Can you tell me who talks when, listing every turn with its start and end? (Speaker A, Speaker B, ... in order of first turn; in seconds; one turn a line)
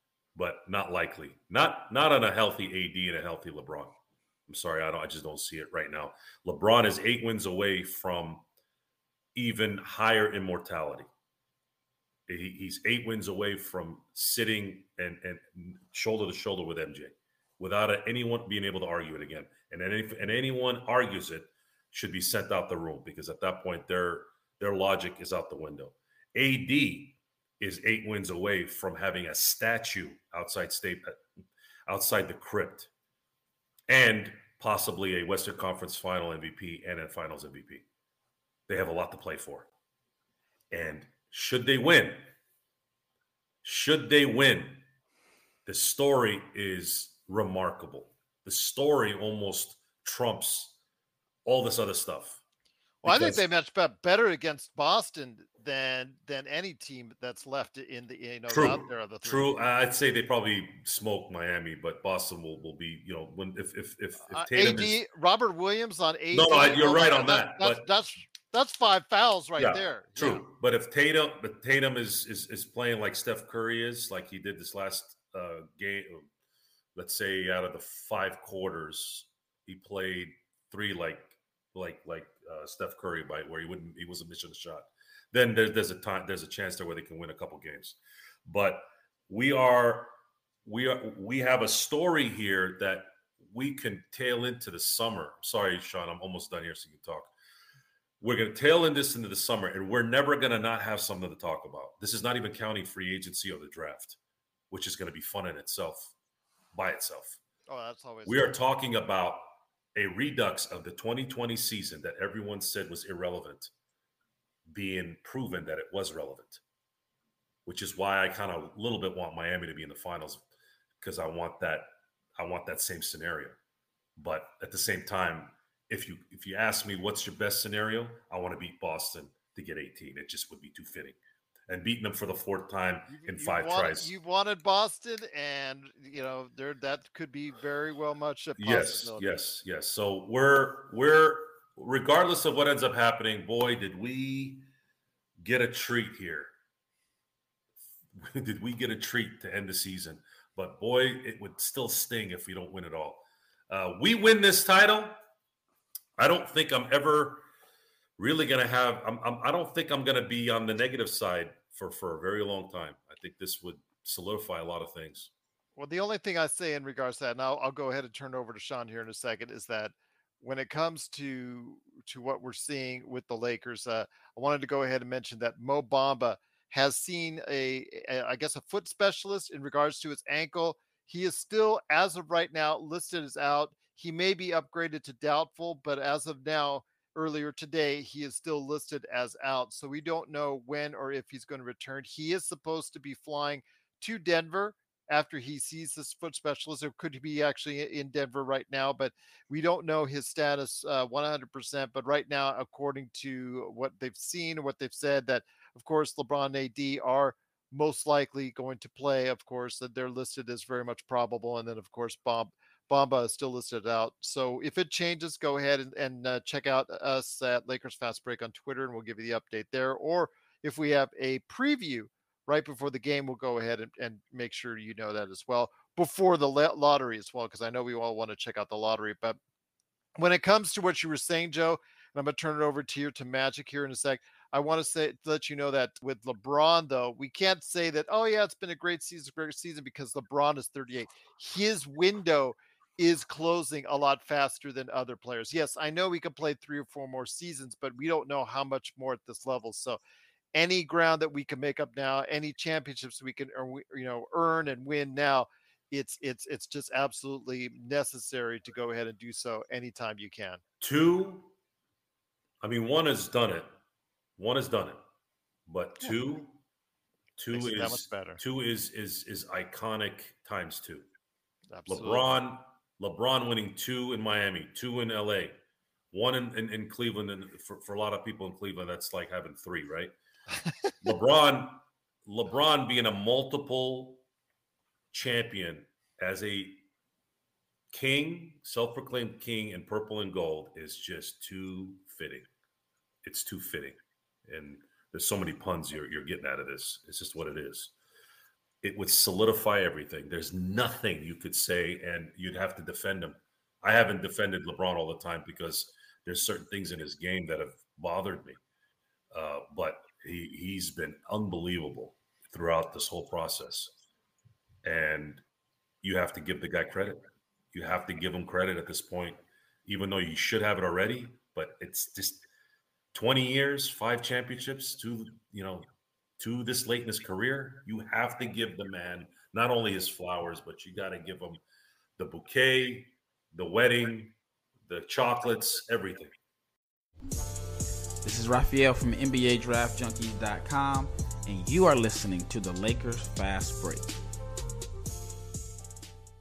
Speaker A: 0.3-4.0
Speaker A: 4.5-8.4
Speaker A: 9.3-11.1
Speaker A: 12.3-31.2
Speaker A: 31.9-32.9
Speaker A: 33.9-37.8
Speaker A: 38.7-39.7
Speaker A: 40.7-42.3
Speaker A: 43.6-44.9
Speaker A: 45.7-50.8
Speaker A: 51.5-52.4
Speaker A: 53.0-53.4
Speaker B: 53.0-59.6
Speaker A: 58.5-65.0
Speaker B: 64.2-70.4
Speaker A: 66.3-67.9
Speaker A: 69.6-76.3
Speaker A: 77.0-90.1
Speaker A: 90.7-97.3
Speaker A: 98.2-104.2
Speaker A: 104.7-106.1
Speaker A: 106.7-107.4
Speaker B: 107.7-108.6
Speaker A: 108.3-113.7
Speaker A: 114.7-116.6
Speaker A: 117.7-120.4
Speaker A: 121.0-123.6
Speaker A: 124.2-131.2
Speaker A: 131.7-134.1
Speaker B: 133.1-139.3
Speaker A: 138.6-144.7
Speaker A: 145.4-146.5
Speaker A: 148.2-155.2
Speaker A: 156.2-157.4
Speaker A: 158.2-165.3
Speaker B: 165.8-229.4
Speaker B: 230.2-250.0
Speaker B: 250.5-260.6
Speaker A: 260.8-261.5
Speaker A: 262.6-263.7
Speaker A: 264.4-265.0
Speaker A: 265.7-266.6
Speaker A: 267.4-271.1
Speaker B: 267.5-268.4
Speaker B: 271.7-272.3
Speaker A: 271.9-275.6
Speaker A: 276.1-280.1
Speaker A: 281.0-284.2
Speaker A: 285.1-286.9
Speaker A: 287.9-292.5
Speaker A: 293.2-297.9
Speaker A: 298.8-308.6
Speaker A: 309.3-313.9
Speaker A: 314.8-315.4
Speaker A: 316.0-322.4
Speaker A: 323.1-325.9
Speaker A: 326.4-331.6
Speaker A: 332.2-334.4
Speaker A: 334.9-336.3
Speaker C: 338.2-344.2